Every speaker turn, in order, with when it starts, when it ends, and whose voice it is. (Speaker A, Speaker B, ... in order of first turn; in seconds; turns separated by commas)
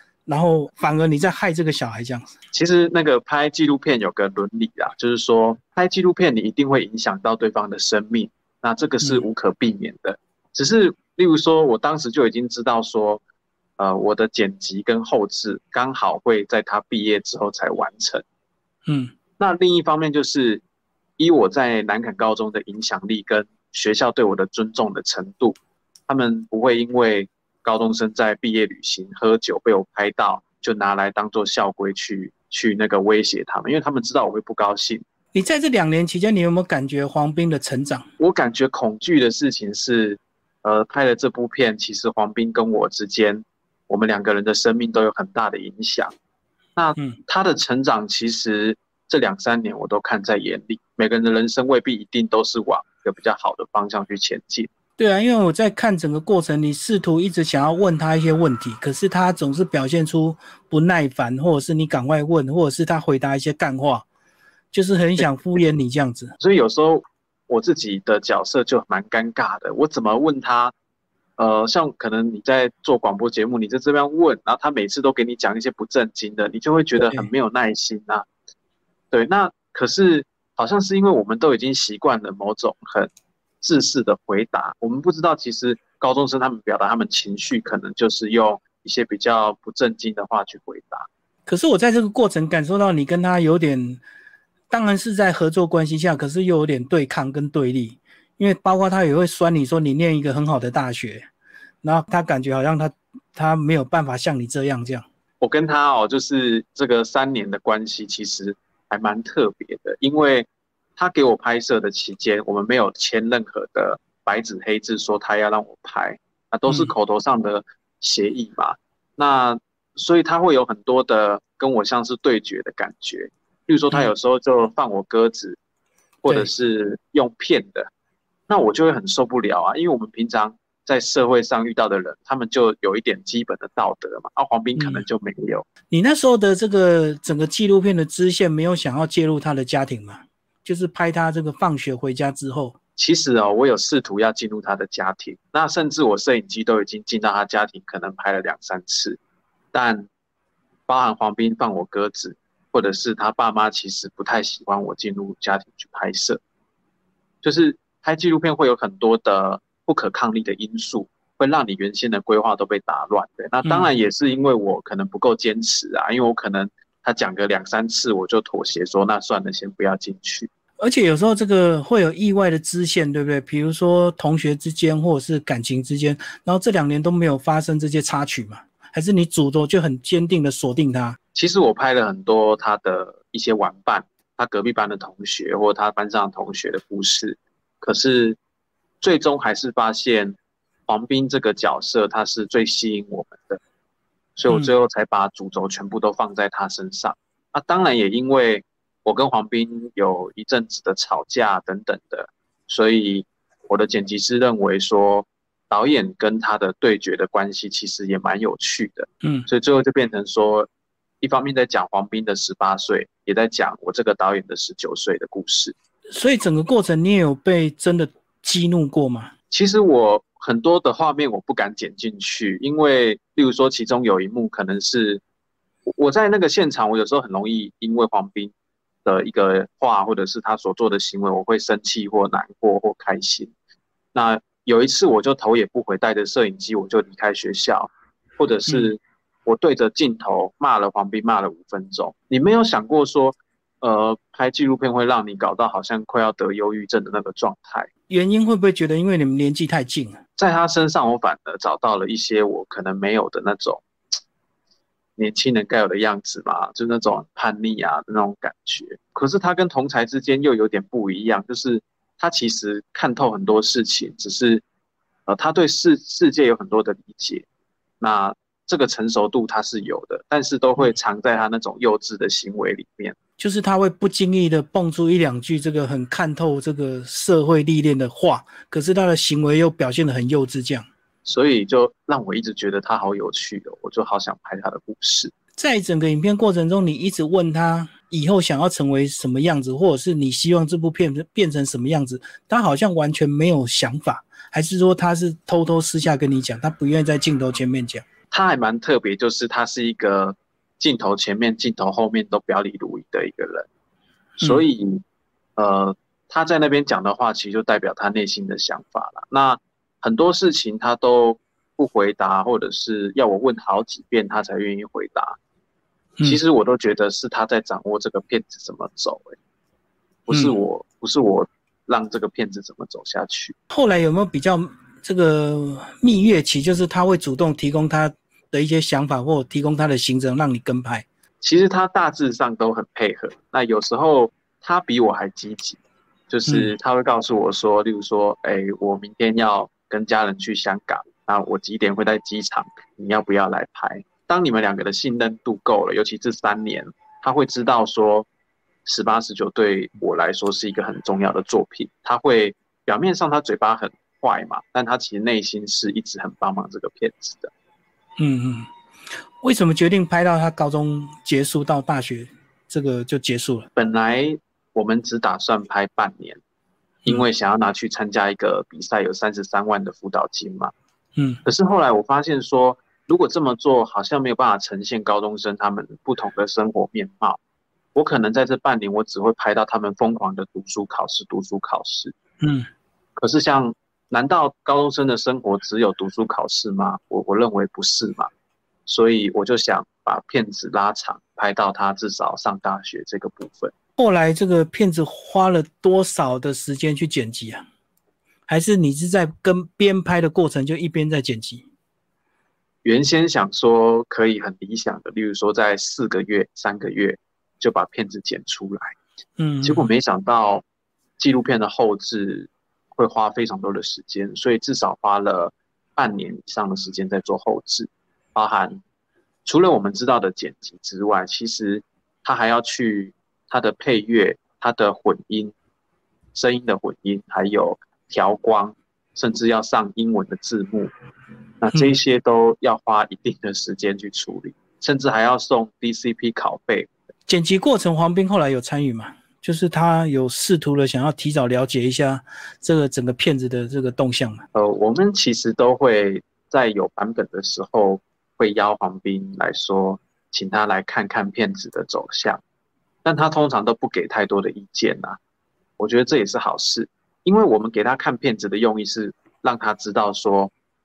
Speaker A: 0.2-2.3, Speaker B: 2.5-13.2, Speaker B: 13.8-18.2, Speaker A: 18.9-19.1, Speaker B: 19.4-20.6, Speaker B: 21.2-25.6, Speaker B: 26.1-35.0, Speaker A: 35.3-38.0, Speaker B: 38.2-46.1, Speaker B: 46.8-54.7, Speaker A: 55.0-64.0, Speaker A: 64.7-66.3, Speaker B: 66.4-70.7, Speaker B: 71.4-78.2, Speaker A: 77.0-77.3, Speaker B: 79.1-83.1, Speaker B: 83.6-91.1, Speaker A: 91.5-94.0, Speaker A: 94.7-101.3, Speaker A: 101.8-105.0, Speaker B: 105.4-125.6, Speaker A: 116.7-116.9, Speaker A: 126.2-126.5, Speaker B: 126.2-127.9, Speaker B: 128.5-135.6, Speaker A: 134.8-135.0, Speaker A: 135.9-142.8, Speaker B: 143.0-149.2, Speaker B: 149.7-150.1, Speaker B: 150.9-156.4, Speaker B: 157.4-170.5, Speaker A: 163.6-163.9, Speaker A: 170.8-181.2, Speaker B: 181.3-188.4, Speaker B: 189.0-190.4, Speaker B: 190.9-193.6, Speaker B: 194.4-210.7, Speaker A: 209.2-209.5, Speaker B: 211.2-215.7, Speaker A: 216.1-219.3, Speaker B: 219.5-225.2, Speaker B: 225.8-228.5, Speaker B: 229.0-233.5, Speaker B: 234.1-247.9, Speaker A: 248.1-250.2, Speaker B: 250.4-253.8, Speaker B: 255.2-264.6, Speaker B: 265.3-267.4, Speaker B: 268.0-273.1, Speaker A: 273.4-280.9, Speaker B: 281.2-285.3, Speaker A: 285.6-298.0, Speaker B: 298.3-303.7, Speaker B: 304.4-305.0, Speaker B: 305.6-315.4, Speaker B: 316.2-319.4, Speaker B: 320.3-323.5, Speaker A: 320.3-320.6, Speaker A: 323.7-331.1, Speaker B: 331.4-348.3, Speaker A: 336.5-336.7, Speaker B: 348.9-357.5, Speaker A: 358.2-358.7, Speaker A: 359.4-363.7, Speaker B: 363.7-366.4, Speaker B: 367.1-370.7, Speaker A: 371.2-371.4, Speaker B: 371.4-377.4, Speaker B: 377.9-382.1, Speaker A: 382.4-382.7, Speaker B: 383.2-388.3, Speaker B: 388.9-393.7, Speaker A: 394.0-397.6, Speaker A: 398.5-401.6, Speaker B: 402.8-408.9, Speaker A: 409.4-409.9, Speaker B: 409.6-410.6, Speaker B: 411.2-418.8, Speaker B: 419.4-425.5, Speaker B: 426.3-430.9, Speaker B: 431.6-436.9, Speaker A: 437.3-444.4, Speaker B: 444.5-452.4, Speaker B: 453.0-455.2, Speaker B: 455.8-460.5